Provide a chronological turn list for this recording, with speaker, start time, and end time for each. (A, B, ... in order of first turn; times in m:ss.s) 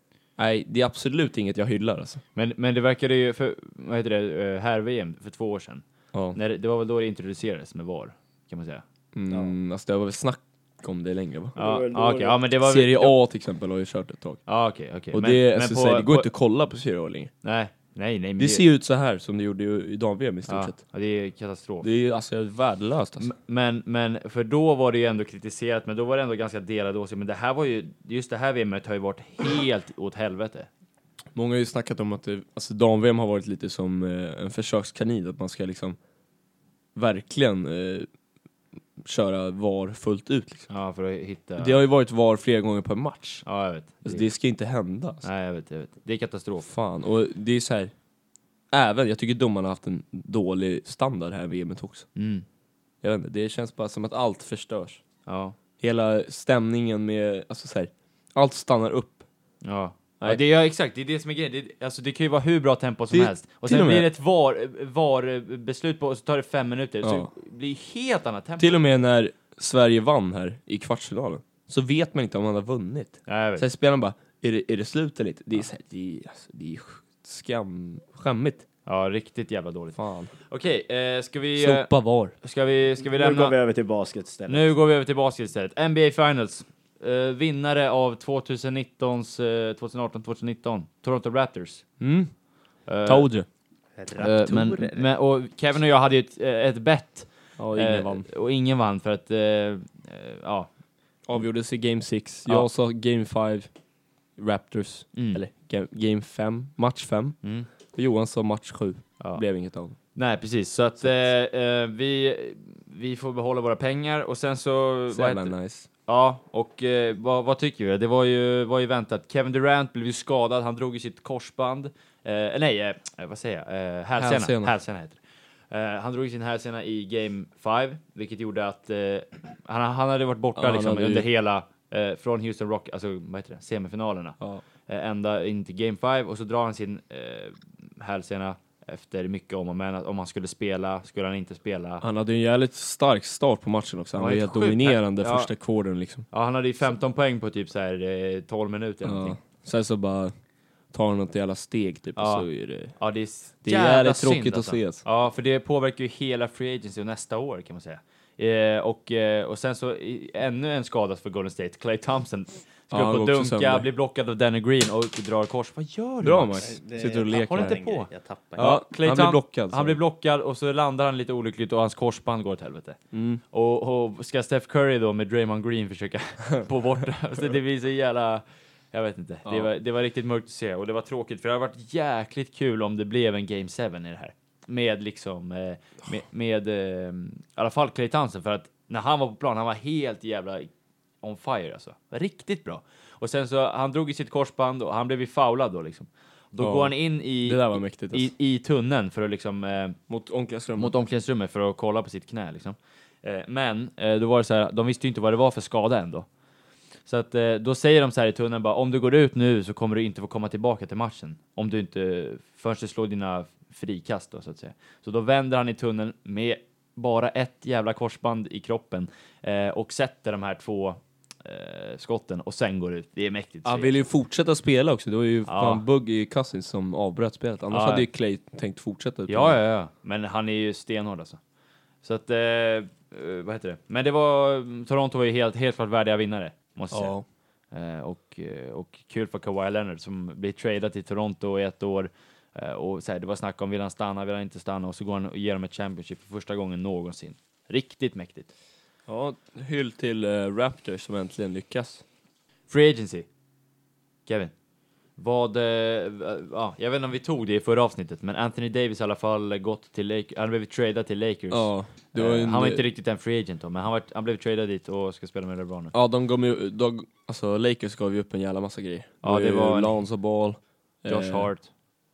0:00.4-0:02.2 A
0:02.4-0:08.8 B
0:09.1-0:11.6 A
0:11.6-0:12.4 C
0:11.6-0:13.2 B
0:12.6-0:14.4 A
0:14.5-0:16.3 B
0:15.1-0:17.3 A
0:17.4-0:18.6 B
0:18.4-0:20.8 A
0:20.5-0:21.9 B
0:21.8-0:23.3 A
0:23.2-0:30.7 B
0:31.3-0:36.0 A
0:37.0-0:38.1 A
0:39.0-0:40.7 A
0:40.7-0:41.8 B
0:41.6-0:43.4 A
0:43.4-0:44.3 B
0:44.0-0:45.2 A
0:45.2-0:46.7 B
0:46.6-0:47.9 A
0:48.7-0:52.1 A
0:52.2-0:52.4 B
0:53.0-0:55.0 A
0:55.3-0:55.6 B
0:55.8-0:59.3 A
0:59.6-1:08.8 B
1:03.1-1:04.1 A
1:07.0-1:07.3 A
1:08.6-1:18.6 A
1:13.3-1:13.7 B
1:18.9-1:23.6 B
1:20.0-1:20.3 A
1:21.6-1:22.3 A
1:23.0-1:24.7 C
1:24.5-1:31.9 B
1:32.0-1:32.3 A
1:32.9-1:33.3 B
1:33.0-1:33.5 A
1:34.0-1:35.1 C
1:34.2-1:40.7 B
1:37.6-1:38.3 A
1:41.3-1:43.7 A
1:44.4-1:47.4 A
1:45.1-1:45.4 B
1:47.4-1:47.7 B
1:47.9-1:50.0 A
1:50.1-1:55.5 B
1:55.1-1:55.9 A
1:56.1-2:05.2 B
2:04.2-2:04.7 A
2:05.7-2:22.0 B
2:10.6-2:11.3 A
2:22.0-2:26.3 A
2:24.2-2:25.5 B
2:26.3-2:29.4 B
2:29.0-2:30.3 A
2:30.9-2:33.0 A
2:32.2-2:46.7 B
2:33.6-2:35.0 A
2:42.9-2:43.9 A
2:46.2-2:47.8 A
2:46.6-2:48.7 C
2:47.3-2:53.0 B
2:48.6-2:50.0 A
2:53.1-2:53.4 A
2:53.5-3:10.7 B
3:11.2-3:20.0 B
3:16.6-3:18.3 A
3:20.1-3:20.9 A
3:20.8-3:26.3 B
3:27.1-3:44.0 B
3:43.6-3:49.6 A
3:45.5-3:45.8 B
3:47.7-3:48.1 B
3:49.3-3:51.4 B
3:52.0-3:57.2 B
3:56.9-3:57.2 A
3:57.7-4:08.5 B
4:09.1-4:12.0 A
4:12.7-4:13.3 B
4:14.3-4:14.5 B
4:15.2-4:25.9 B
4:21.5-4:22.8 A
4:25.9-4:31.5 A
4:29.2-4:30.0 B
4:31.1-4:31.7 B